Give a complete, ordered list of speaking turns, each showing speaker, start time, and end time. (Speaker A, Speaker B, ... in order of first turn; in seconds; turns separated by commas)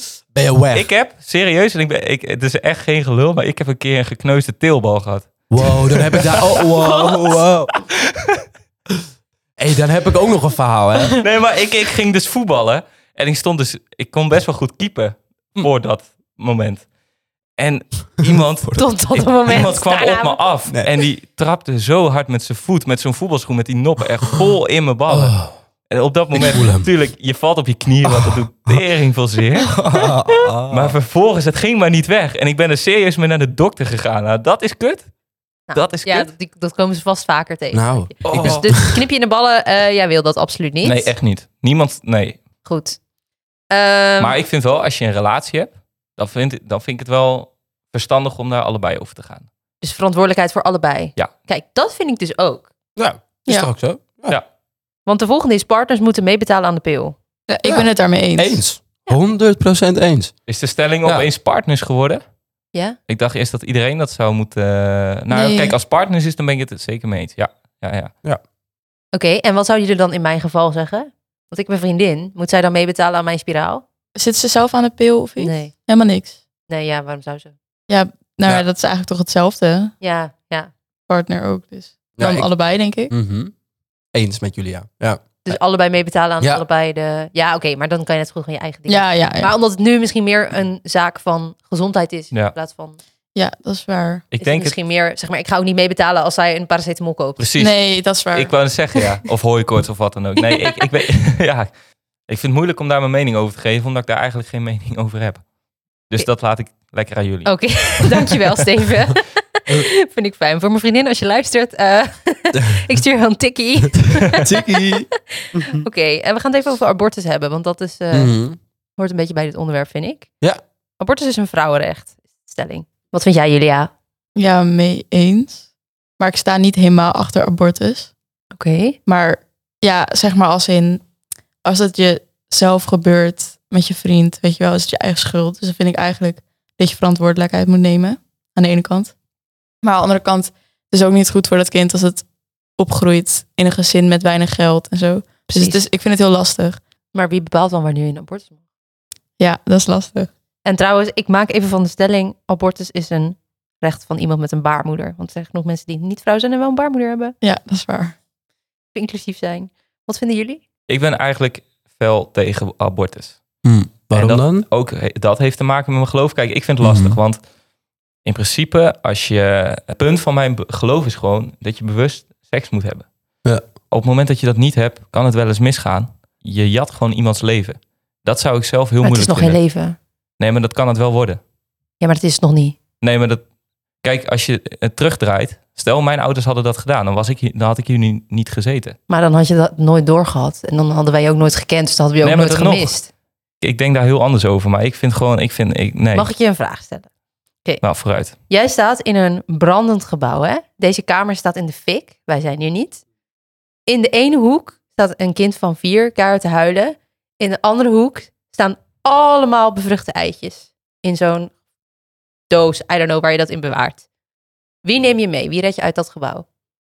Speaker A: 0.3-0.9, Speaker B: 0.7-7.4, Speaker A: 5.5-7.7, Speaker A: 9.6-11.2, Speaker B: 11.2-16.9, Speaker B: 17.6-30.1, Speaker C: 18.8-20.5, Speaker A: 20.7-20.9, Speaker A: 25.1-25.6, Speaker A: 26.3-26.9, Speaker A: 28.0-28.8, Speaker A: 29.8-31.0, Speaker B: 30.7-35.1, Speaker C: 35.7-41.1, Speaker B: 35.7-36.3, Speaker A: 37.7-39.1, Speaker B: 38.3-38.7, Speaker B: 40.8-42.4, Speaker C: 42.6-43.0, Speaker C: 43.7-44.4, Speaker B: 44.2-49.5, Speaker C: 49.8-52.7, Speaker A: 53.0-54.4, Speaker C: 55.1-57.2, Speaker D: 57.5-58.6, Speaker A: 57.6-60.3, Speaker B: 60.5-62.2, Speaker B: 63.1-68.1, Speaker D: 65.3-65.8, Speaker C: 69.1-73.8, Speaker D: 74.2-76.4, Speaker C: 75.4-75.7, Speaker C: 76.7-77.5, Speaker D: 77.9-79.9, Speaker C: 80.0-80.7, Speaker D: 81.1-83.1, Speaker A: 82.2-82.5, Speaker A: 83.1-83.5, Speaker A: 84.1-85.6, Speaker C: 85.4-93.0, Speaker A: 86.4-86.7, Speaker D: 88.9-89.5, Speaker D: 93.3-94.2, Speaker B: 94.3-94.8, Speaker C: 94.4-97.5, Speaker B: 97.4-97.8, Speaker D: 97.6-98.5, Speaker B: 98.3-101.7, Speaker B: 102.3-105.4, Speaker B: 106.1-108.3, Speaker C: 107.5-114.5, Speaker A: 114.4-115.8, Speaker C: 115.5-118.3, Speaker A: 118.1-118.6, Speaker C: 119.0-120.3, Speaker C: 121.0-123.9, Speaker D: 124.4-125.6, Speaker D: 126.2-128.1, Speaker C: 128.5-129.0, Speaker D: 129.1-131.0, Speaker D: 131.6-139.1, Speaker D: 139.8-142.2, Speaker D: 142.8-146.8, Speaker C: 147.1-148.6, Speaker D: 149.4-150.3, Speaker C: 150.7-157.3, Speaker D: 157.4-158.2, Speaker C: 158.9-160.6, Speaker B: 160.9-163.4, Speaker A: 163.7-164.7, Speaker B: 164.1-167.4, Speaker A: 166.8-167.2, Speaker B: 168.2-173.1, Speaker B: 173.9-179.7, Speaker C: 179.0-180.0, Speaker B: 180.4-181.4, Speaker C: 182.0-182.8, Speaker B: 183.0-183.4, Speaker B: 184.0-189.0, Speaker C: 189.1-193.1, Speaker B: 192.2-192.9, Speaker B: 193.6-196.3, Speaker C: 196.1-197.1, Speaker B: 197.8-198.3, Speaker C: 198.5-203.0, Speaker C: 203.9-211.5, Speaker C: 212.5-214.0, Speaker C: 214.8-216.5